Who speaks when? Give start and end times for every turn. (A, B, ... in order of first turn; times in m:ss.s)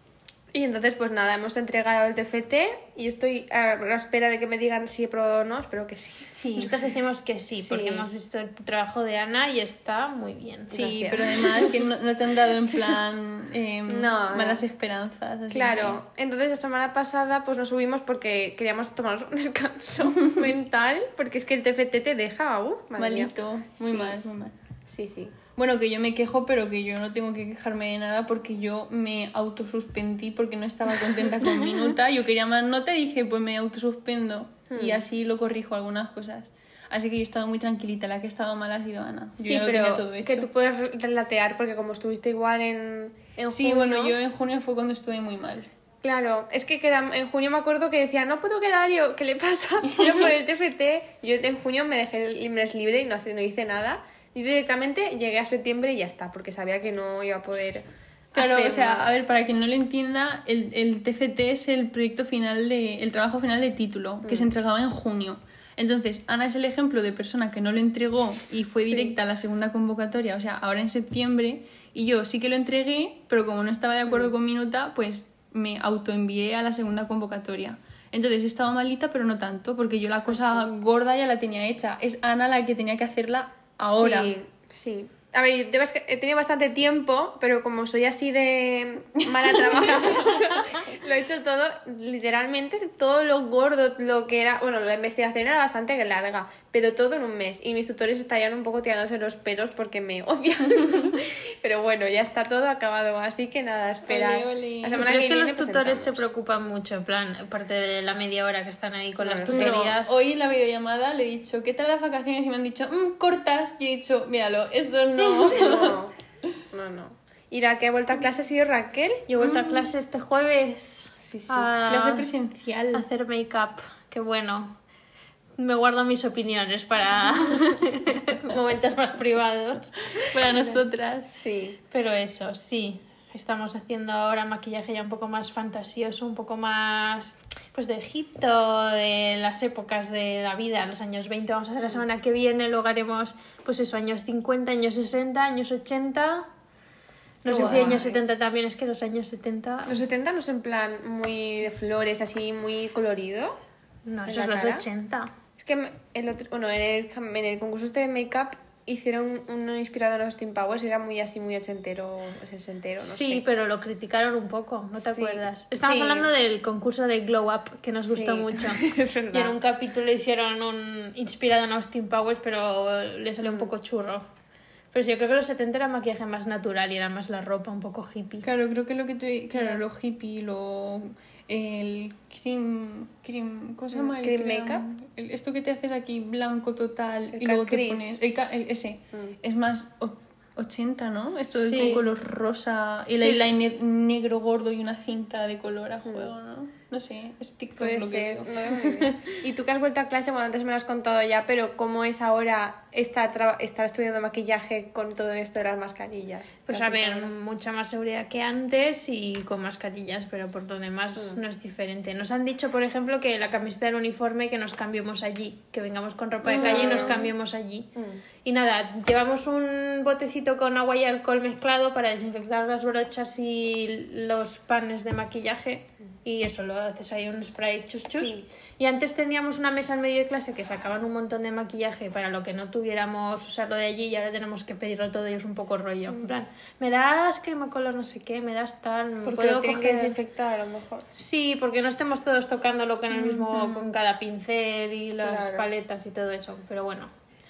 0:00.5-0:06.4 A
0:06.3-0:06.7 B
0:06.6-0:11.8 C
0:07.5-0:08.1 A
0:10.7-0:11.9 A
0:10.7-0:16.0 B
0:13.9-0:14.6 A
0:15.5-0:24.2 A
0:20.0-0:20.5 B
0:23.0-0:24.5 B
0:24.8-0:25.4 A
0:25.5-0:40.5 B
0:34.7-0:35.0 A
0:39.4-0:44.2 A
0:43.5-0:45.7 B
0:46.0-0:59.1 A
0:49.8-0:50.3 B
0:58.3-1:24.3 B
1:04.2-1:04.5 A
1:08.8-1:09.1 A
1:14.1-1:14.3 A
1:20.2-1:20.6 A
1:23.8-1:46.2 A
1:29.4-1:30.6 B
1:40.6-1:41.2 B
1:44.1-1:45.0 B
1:44.9-1:50.2 C
1:49.2-1:49.8 A
1:49.5-1:56.0 B
1:55.4-1:56.1 A
1:56.7-1:59.3 A
1:59.3-2:02.3 C
1:59.4-1:59.8 B
2:01.2-2:01.7 A
2:01.8-2:03.0 B
2:02.9-2:04.8 C
2:05.6-2:10.8 C
2:10.2-2:11.3 B
2:11.3-2:11.8 A
2:11.9-2:26.5 C
2:27.4-2:30.0 C
2:27.4-2:28.2 A
2:27.5-2:27.8 B
2:29.8-2:33.6 A
2:34.0-2:35.3 C
2:34.3-2:34.8 A
2:35.6-2:43.4 A
2:43.0-2:54.2 C
2:45.0-2:46.3 A
2:48.0-2:49.6 A
2:54.9-2:58.5 C
2:58.4-3:19.3 B
2:59.6-2:59.8 A
3:03.9-3:04.8 A
3:07.3-3:08.2 A
3:11.5-3:12.0 C
3:13.1-3:13.5 C
3:17.8-3:27.3 A
3:26.7-3:37.9 C
3:36.4-3:37.3 A
3:38.0-3:38.2 A
3:38.4-4:00.2 C
3:48.1-3:48.4 A
3:59.2-4:01.1 A
4:01.1-4:07.1 C
4:03.1-4:03.8 B
4:05.2-4:05.6 A